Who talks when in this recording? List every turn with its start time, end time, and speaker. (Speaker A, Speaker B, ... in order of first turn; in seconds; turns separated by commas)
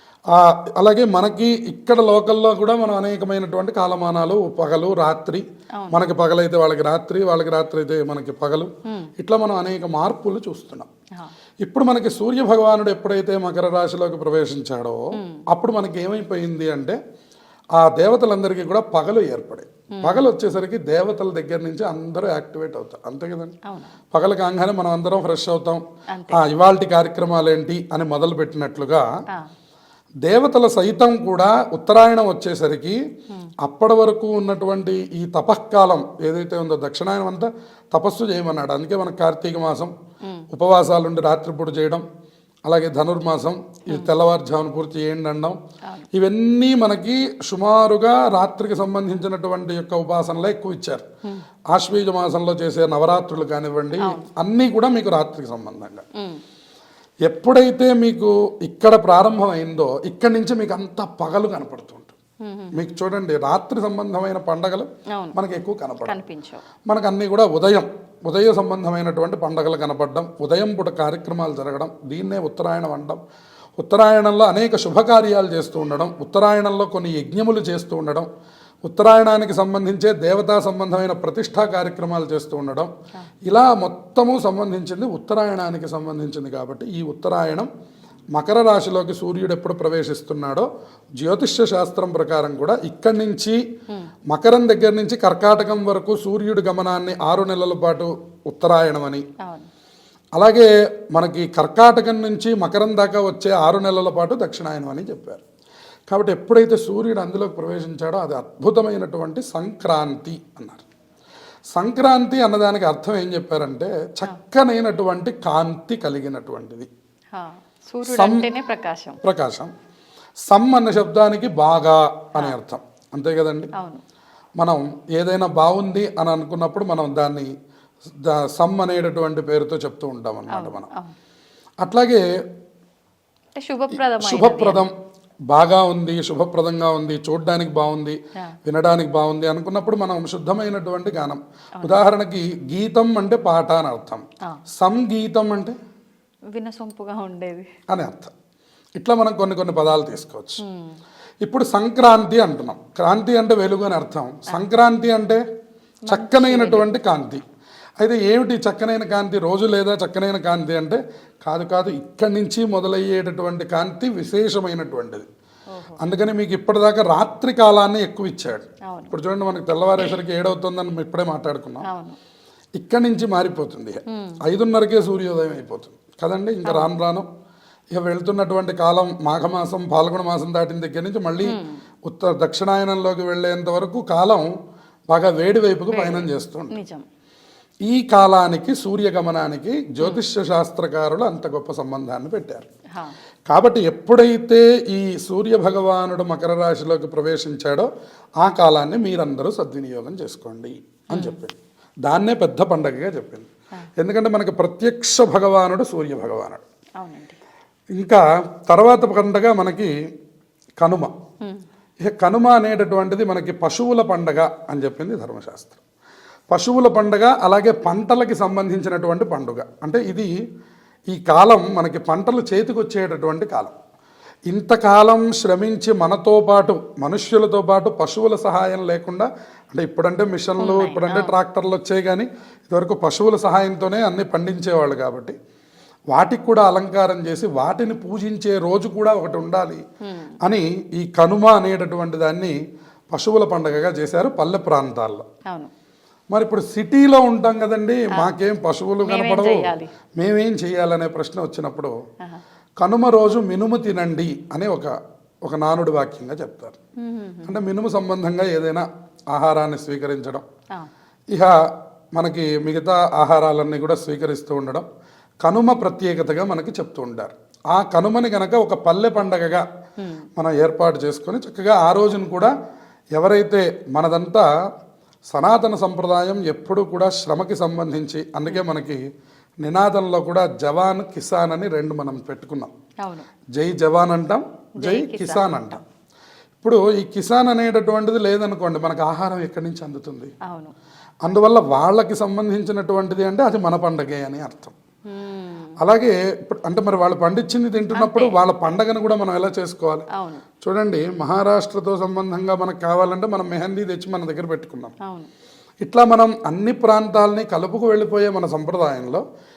Speaker A: 0.3-10.9, Speaker B: 5.7-6.0, Speaker A: 11.6-17.0, Speaker B: 15.1-15.4, Speaker A: 17.8-23.5, Speaker B: 19.9-20.3, Speaker B: 23.7-23.9, Speaker A: 24.1-29.0, Speaker B: 26.1-26.4, Speaker A: 30.2-33.0, Speaker A: 33.6-39.9, Speaker A: 40.5-42.0, Speaker A: 42.6-45.6, Speaker A: 46.1-51.0, Speaker A: 51.7-56.0, Speaker B: 54.0-54.2, Speaker A: 57.2-62.1, Speaker B: 62.4-62.9, Speaker A: 62.7-66.1, Speaker B: 66.0-66.6, Speaker A: 66.9-73.2, Speaker A: 73.8-78.3, Speaker A: 78.8-82.9, Speaker A: 83.4-87.7, Speaker A: 88.3-90.7, Speaker A: 91.2-93.6, Speaker A: 94.3-99.2, Speaker B: 99.4-99.7, Speaker A: 100.3-105.4, Speaker A: 106.1-110.8, Speaker A: 111.7-116.9, Speaker B: 117.3-119.2, Speaker A: 118.1-118.5, Speaker A: 119.2-119.7, Speaker A: 120.5-123.7, Speaker B: 123.7-124.0, Speaker A: 124.6-127.5, Speaker A: 128.2-130.9, Speaker B: 130.5-131.1, Speaker A: 131.8-132.2, Speaker B: 133.5-134.9, Speaker A: 133.9-134.9, Speaker A: 135.5-144.2, Speaker A: 144.8-145.7, Speaker B: 146.5-147.7, Speaker A: 147.9-148.3, Speaker A: 149.0-150.6, Speaker B: 150.6-151.0, Speaker A: 151.4-155.4, Speaker B: 156.1-156.9, Speaker A: 156.1-157.4, Speaker A: 158.0-165.2, Speaker B: 165.7-166.0, Speaker A: 166.0-171.8, Speaker B: 168.9-169.1, Speaker B: 171.8-172.2, Speaker A: 172.8-177.3, Speaker B: 174.1-174.4, Speaker B: 176.6-176.9, Speaker A: 177.9-184.5, Speaker B: 181.4-181.8, Speaker A: 185.1-186.8, Speaker B: 185.9-187.0, Speaker A: 187.9-192.7, Speaker A: 193.5-197.9, Speaker A: 198.4-206.6, Speaker B: 201.1-201.4, Speaker B: 207.0-207.4, Speaker A: 207.9-209.9, Speaker A: 210.8-211.1, Speaker A: 212.0-215.8, Speaker A: 216.5-220.3, Speaker A: 221.1-223.7, Speaker A: 224.5-235.3, Speaker B: 230.6-231.3, Speaker A: 236.1-239.8, Speaker B: 240.1-240.3, Speaker A: 240.4-242.5, Speaker A: 243.1-245.2, Speaker A: 246.3-251.9, Speaker B: 249.0-249.9, Speaker A: 252.8-254.9, Speaker A: 255.4-256.8, Speaker B: 257.0-257.6, Speaker A: 257.4-260.4, Speaker A: 262.1-264.9, Speaker A: 265.4-269.6, Speaker B: 270.0-270.2, Speaker A: 270.4-272.5, Speaker A: 273.1-274.4, Speaker A: 275.3-279.0, Speaker A: 279.6-282.7, Speaker A: 283.5-285.8, Speaker B: 284.8-285.8, Speaker A: 286.6-290.3, Speaker B: 290.4-290.7, Speaker A: 291.2-294.7, Speaker B: 295.1-295.7, Speaker A: 295.8-300.0, Speaker B: 297.9-298.4, Speaker B: 300.1-300.4, Speaker A: 300.6-304.9, Speaker A: 305.8-309.2